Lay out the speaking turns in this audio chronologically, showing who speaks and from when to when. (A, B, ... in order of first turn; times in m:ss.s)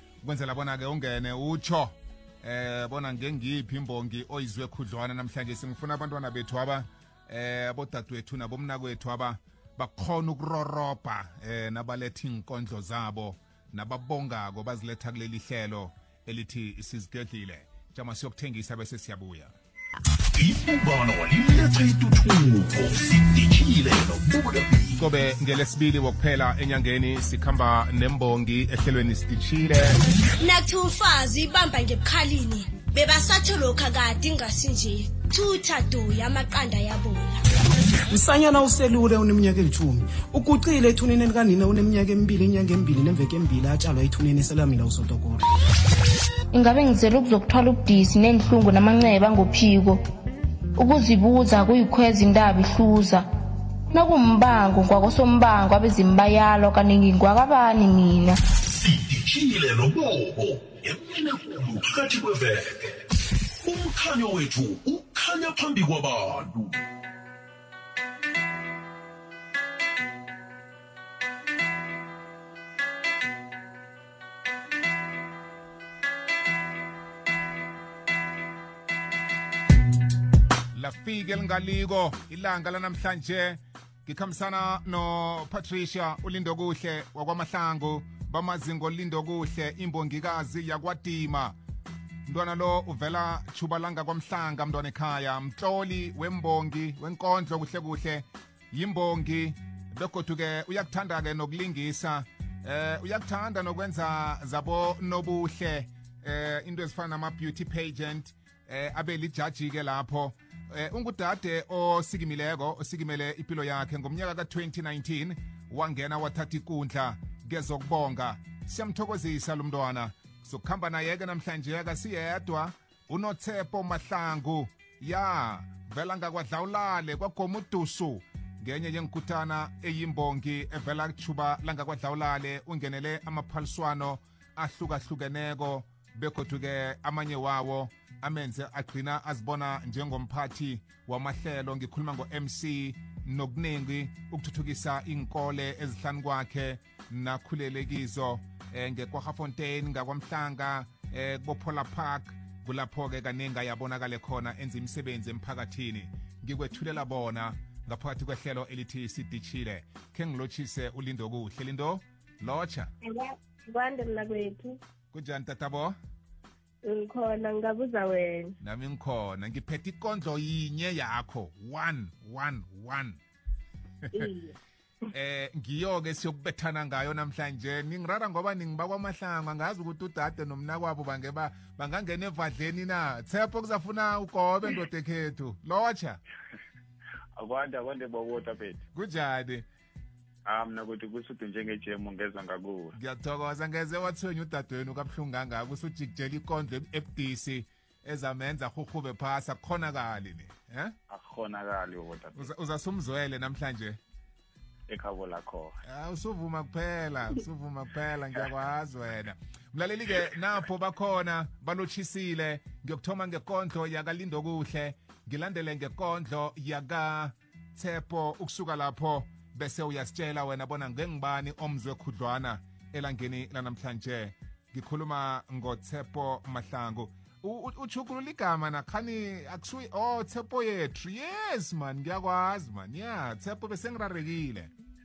0:00.2-0:19.5 A
0:20.3-0:25.0 B
0:25.0-0:30.0 A
0:30.4-0:37.4 C
0:38.1-0:45.4 D
0:46.5-0:50.0 E
0:50.8-0:53.3 E
0:53.9-0:58.4 E
0:58.8-1:03.0 B
1:03.6-1:06.7 B
1:20.7-1:31.6 A
1:32.3-2:42.9 A
2:43.7-2:44.6 F
2:45.1-2:45.9 A
2:47.0-2:48.2 F
2:48.6-2:53.2 A
2:55.1-3:06.2 A
3:07.4-3:08.8 G
3:08.9-3:09.6 A
3:10.4-3:12.9 G
3:13.0-3:20.9 A
3:21.1-3:22.5 G
3:22.3-3:24.0 A
3:24.9-3:25.7 G
3:25.9-3:54.7 A